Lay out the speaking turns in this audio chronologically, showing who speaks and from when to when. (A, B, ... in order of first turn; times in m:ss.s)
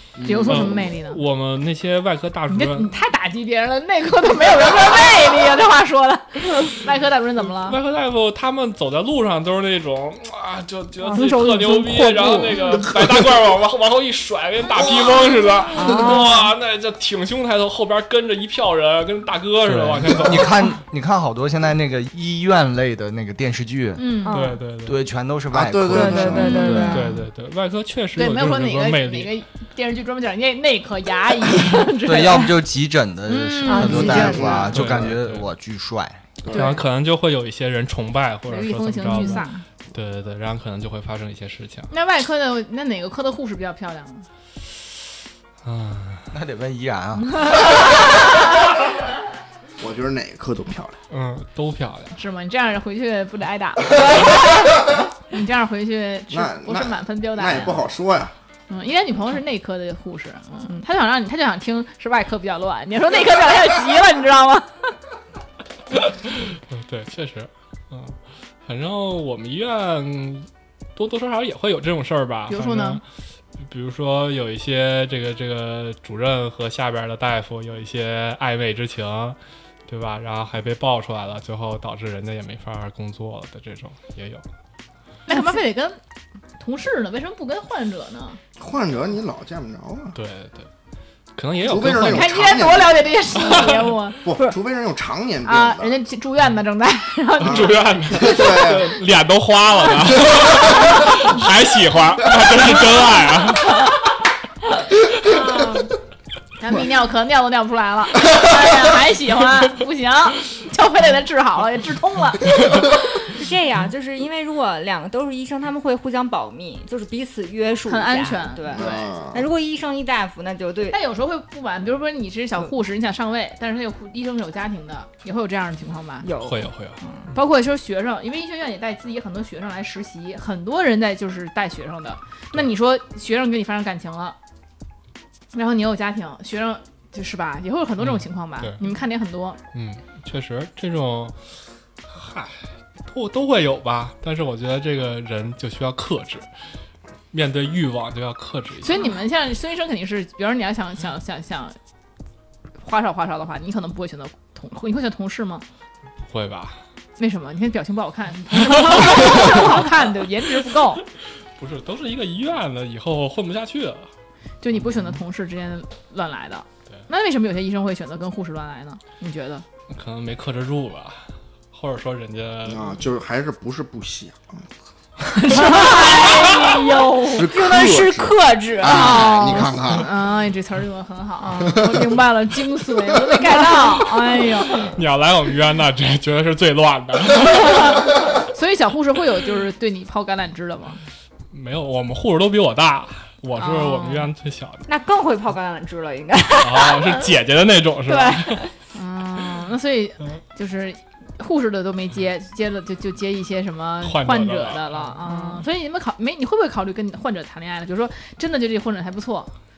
0:00.2-0:00.9 A
0:00.2-0:01.2 B
0:00.4-0:02.9 C
0:02.5-0:07.8 B
0:07.6-0:20.7 C
0:11.0-0:12.9 D
0:15.7-0:16.5 D
0:19.6-0:24.3 E
0:24.0-0:24.4 B
0:24.2-0:24.6 D
0:24.3-0:25.0 C
0:24.8-0:27.0 E
0:25.5-0:26.6 A
0:25.9-0:27.2 D
0:26.4-0:27.0 B
0:26.9-0:29.3 C
0:28.2-0:32.5 B
0:32.0-0:36.2 E
0:33.3-0:34.6 B
0:33.6-0:34.7 D
0:33.9-0:35.1 A
0:34.7-0:35.5 C
0:36.4-0:36.8 A
0:36.5-0:41.9 C
0:36.5-0:36.8 B
0:38.5-0:39.6 B
0:39.2-0:39.5 D
0:41.9-0:44.3 B
0:45.6-0:46.3 C
0:46.3-0:47.5 E
0:49.8-0:51.0 A
0:51.1-0:52.2 C
0:52.2-0:57.8 B
0:54.0-0:54.4 D
0:56.3-0:58.3 A
0:58.7-1:04.9 B
1:06.0-1:13.0 C
1:12.5-1:13.0 B
1:13.6-1:24.4 C
1:25.3-1:26.0 B
1:26.6-1:28.4 B
1:28.6-1:30.2 A
1:30.2-1:30.7 C
1:31.4-1:32.3 C
1:31.6-1:33.1 A
1:32.0-1:34.2 B
1:33.4-1:33.9 C
1:34.2-1:36.0 A
1:35.4-1:37.8 B
1:37.4-1:39.0 A
1:37.4-1:43.9 C
1:45.2-1:45.9 B
1:46.6-1:53.0 B
1:53.2-2:01.0 D
1:57.9-1:59.1 B
1:58.7-1:59.5 A
2:00.9-2:06.3 B
2:06.2-2:07.3 D
2:06.4-2:07.0 C
2:07.3-2:14.4 B
2:15.5-2:19.6 B
2:18.0-2:18.8 C
2:19.7-2:21.4 C
2:22.1-2:26.5 C
2:27.3-2:29.0 C
2:28.8-2:31.8 B
2:32.8-2:35.6 B
2:36.2-2:36.8 C
2:37.2-2:41.0 B
2:41.6-2:44.1 C
2:44.6-2:49.6 B
2:49.9-2:53.0 C
2:52.6-2:54.7 A
2:55.2-2:57.5 B
2:55.5-2:59.7 D
2:57.2-3:00.1 A
2:58.9-3:04.9 B
3:01.4-3:01.9 D
3:01.8-3:02.1 A
3:03.4-3:04.2 D
3:04.8-3:07.9 C
3:07.4-3:11.0 B
3:11.5-3:14.9 C
3:13.6-3:14.3 B
3:14.9-3:17.3 D
3:16.6-3:18.7 C
3:18.1-3:18.7 D
3:18.9-3:29.5 B
3:24.0-3:25.2 C
3:25.2-3:25.6 D